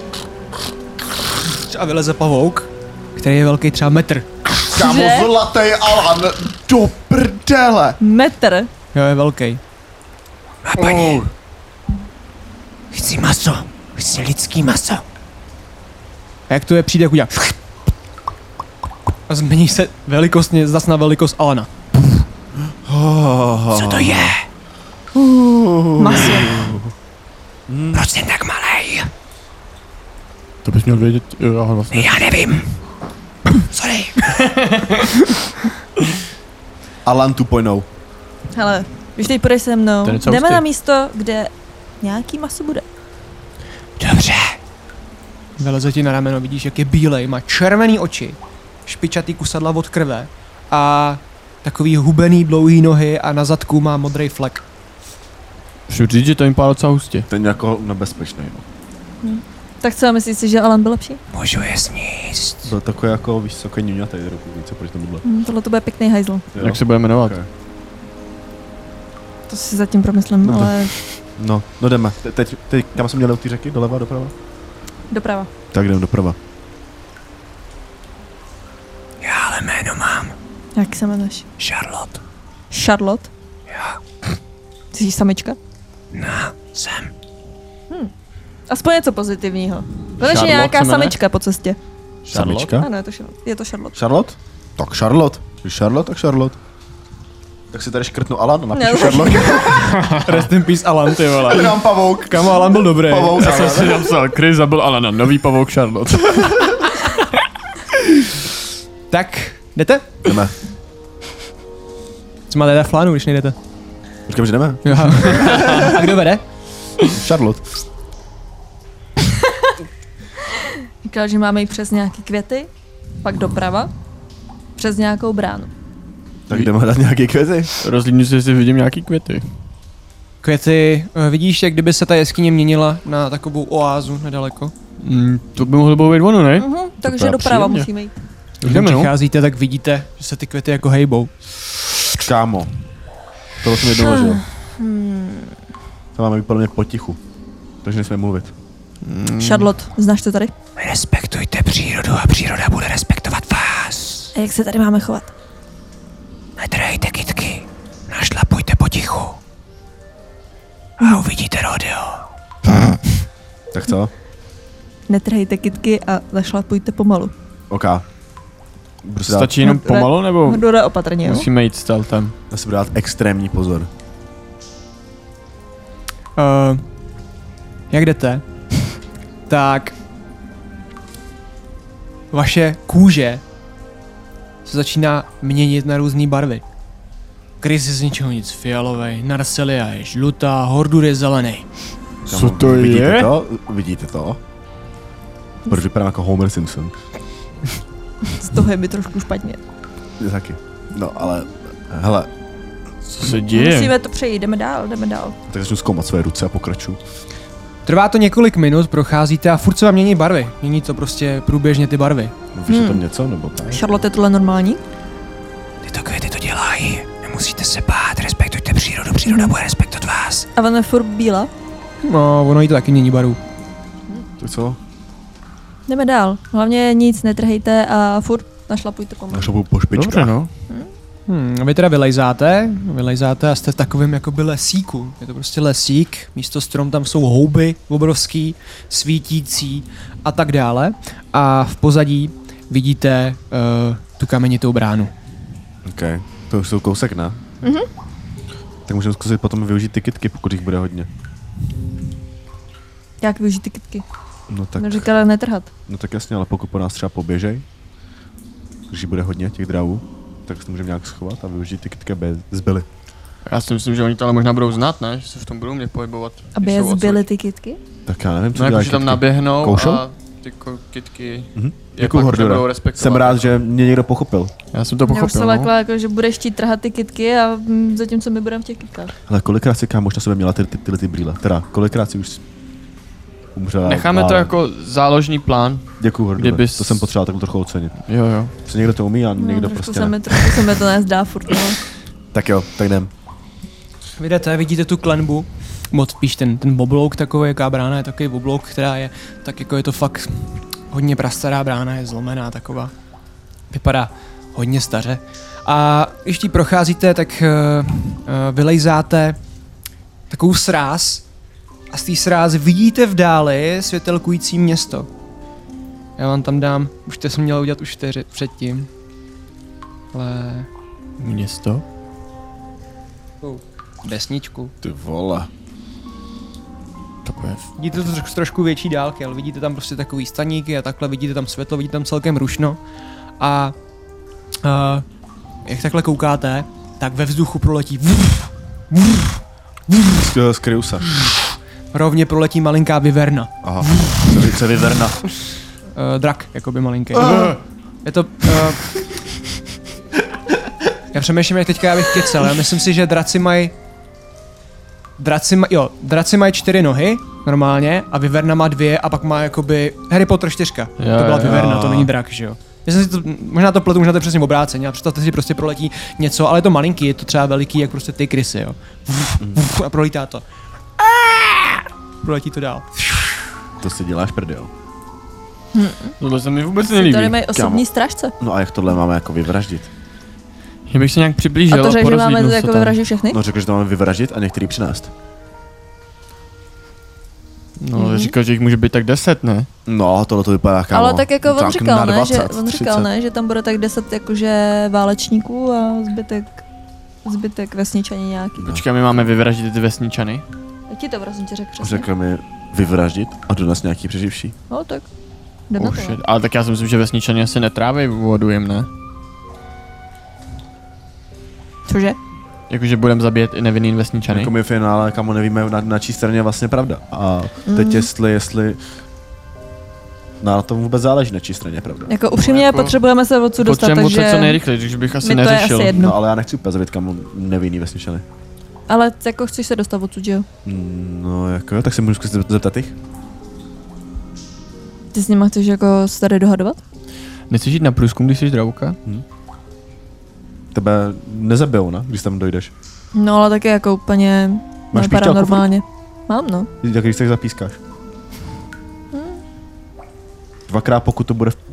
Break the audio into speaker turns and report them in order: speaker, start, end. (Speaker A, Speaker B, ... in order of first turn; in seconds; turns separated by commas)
Speaker A: 1.5-4.3, Speaker B: 4.7-8.0, Speaker C: 4.7-5.3, Speaker C: 8.0-8.7, Speaker A: 8.9-9.6, Speaker D: 10.6-11.2, Speaker B: 10.8-11.3, Speaker A: 12.9-15.0, Speaker A: 16.5-17.6, Speaker A: 19.3-21.7, Speaker B: 22.8-24.4, Speaker D: 23.7-24.4, Speaker B: 25.1-26.9, Speaker C: 26.0-26.6, Speaker B: 27.7-28.1, Speaker D: 27.9-29.1, Speaker E: 30.6-32.4, Speaker D: 31.9-32.7, Speaker D: 33.5-34.5, Speaker E: 34.3-35.1, Speaker B: 37.0-37.9, Speaker C: 38.5-42.8, Speaker E: 40.0-40.6, Speaker D: 44.0-44.6, Speaker A: 45.6-54.6, Speaker E: 55.9-57.3, Speaker B: 57.3-58.6, Speaker C: 59.2-61.2, Speaker D: 61.3-62.6, Speaker B: 62.6-65.2, Speaker C: 65.2-66.5, Speaker B: 66.5-67.5, Speaker E: 66.6-67.4, Speaker C: 69.5-71.0, Speaker B: 70.4-74.3, Speaker C: 75.1-75.5, Speaker B: 75.7-76.4, Speaker D: 79.2-80.3, Speaker C: 80.7-81.5, Speaker D: 81.6-82.2, Speaker C: 82.7-83.3, Speaker D: 83.7-84.0, Speaker C: 84.9-85.6, Speaker D: 86.1-87.1, Speaker C: 88.7-91.8, Speaker E: 90.2-91.2, Speaker E: 92.2-92.8, Speaker B: 92.3-92.9, Speaker C: 92.8-94.0, Speaker B: 94.0-96.6, Speaker B: 97.7-100.0, Speaker C: 98.7-99.8, Speaker E: 100.0-100.3, Speaker A: 100.0-101.7, Speaker B: 101.4-104.1, Speaker A: 102.2-103.9, Speaker E: 103.4-107.0, Speaker A: 109.1-110.1, Speaker B: 110.2-110.5, Speaker A: 112.5-113.5, Speaker B: 114.3-115.9, Speaker A: 114.8-116.4, Speaker B: 117.1-117.6, Speaker C: 120.6-122.7, Speaker C: 123.2-123.9, Speaker C: 124.8-125.7, Speaker B: 126.5-127.7, Speaker E: 127.8-129.5, Speaker A: 130.4-134.7, Speaker E: 135.0-137.9, Speaker C: 136.6-138.1, Speaker E: 138.6-139.1, Speaker A: 138.6-141.3, Speaker B: 142.2-142.7, Speaker B: 143.6-144.4, Speaker C: 143.9-145.5, Speaker B: 146.1-147.2, Speaker B: 147.8-148.5, Speaker E: 149.0-149.7, Speaker C: 149.4-150.5, Speaker D: 150.8-154.3, Speaker C: 154.3-155.3, Speaker D: 156.6-159.4, Speaker D: 161.0-162.2, Speaker B: 163.7-164.1, Speaker C: 165.1-167.3, Speaker B: 167.7-168.0, Speaker B: 169.0-169.6, Speaker E: 169.3-170.6, Speaker C: 169.6-171.4, Speaker E: 171.2-172.3, Speaker B: 172.5-173.9, Speaker A: 176.4-176.9, Speaker A: 177.9-178.4, Speaker A: 179.5-179.9, Speaker A: 182.3-183.4, Speaker A: 184.6-186.6, Speaker A: 187.6-191.7, Speaker B: 192.3-194.4, Speaker E: 192.3-193.3, Speaker B: 195.7-196.9, Speaker C: 198.2-199.6, Speaker B: 200.2-202.3, Speaker E: 203.1-203.9, Speaker C: 203.5-205.3, Speaker B: 205.5-207.0, Speaker A: 207.8-212.3, Speaker B: 212.5-213.8, Speaker C: 212.7-213.0, Speaker C: 213.7-214.8, Speaker D: 215.8-220.5, Speaker C: 220.5-221.5, Speaker A: 222.0-223.4, Speaker B: 224.4-224.8, Speaker C: 225.9-229.5, Speaker B: 229.3-230.3, Speaker E: 229.9-230.5, Speaker A: 231.3-245.1, Speaker B: 245.8-247.4, Speaker C: 247.6-247.9, Speaker B: 248.8-251.1, Speaker C: 253.2-254.0, Speaker B: 254.5-255.1, Speaker C: 254.8-255.7, Speaker B: 255.9-257.6, Speaker B: 258.9-262.9, Speaker E: 263.4-267.2, Speaker C: 266.6-267.8, Speaker B: 268.1-270.0, Speaker E: 268.5-273.6, Speaker B: 271.6-274.5, Speaker E: 274.7-275.7, Speaker C: 275.1-279.1, Speaker B: 279.3-282.4, Speaker B: 283.5-284.5, Speaker E: 283.8-287.1, Speaker B: 286.0-288.0, Speaker E: 288.1-288.5, Speaker B: 288.6-290.2, Speaker C: 289.4-291.8, Speaker B: 292.3-293.1, Speaker A: 294.2-302.9, Speaker A: 303.7-309.4, Speaker A: 310.3-311.2, Speaker A: 311.9-315.1, Speaker A: 316.2-318.9, Speaker A: 320.1-320.7, Speaker E: 321.2-321.8, Speaker A: 323.4-324.7, Speaker B: 324.8-325.5, Speaker E: 327.2-328.1, Speaker A: 327.8-332.8, Speaker A: 333.4-333.7, Speaker A: 334.6-335.0, Speaker A: 335.6-339.4, Speaker B: 340.1-341.1, Speaker A: 341.9-343.5, Speaker B: 343.6-345.2, Speaker A: 345.9-348.8, Speaker B: 347.2-347.5, Speaker A: 351.1-353.7, Speaker A: 355.2-370.4, Speaker E: 361.0-362.1, Speaker A: 371.1-373.0, Speaker B: 373.8-374.7, Speaker C: 375.7-376.1, Speaker E: 376.2-377.4, Speaker C: 376.8-378.3, Speaker B: 377.5-377.8, Speaker B: 378.4-379.9, Speaker E: 380.9-383.0, Speaker C: 381.7-383.4, Speaker B: 383.3-385.1, Speaker E: 387.8-389.7, Speaker C: 387.9-388.3, Speaker B: 389.9-393.1, Speaker C: 390.9-396.6, Speaker C: 397.2-398.7, Speaker E: 398.7-400.4, Speaker C: 400.9-402.1, Speaker B: 401.8-404.6, Speaker C: 404.7-405.1, Speaker C: 405.7-406.2, Speaker E: 405.8-408.9, Speaker C: 411.9-412.2, Speaker E: 412.7-414.5, Speaker B: 414.3-418.8, Speaker C: 417.7-418.1, Speaker B: 420.4-422.1, Speaker C: 422.1-424.6, Speaker E: 422.3-423.0, Speaker E: 423.6-426.1, Speaker C: 425.2-426.1, Speaker B: 425.9-428.2, Speaker C: 428.9-430.4, Speaker B: 430.6-432.9, Speaker C: 435.1-436.8, Speaker E: 437.5-439.0, Speaker B: 440.7-442.7, Speaker C: 443.1-446.7, Speaker B: 444.9-445.7, Speaker B: 446.8-447.8, Speaker C: 449.1-449.4, Speaker B: 450.7-451.6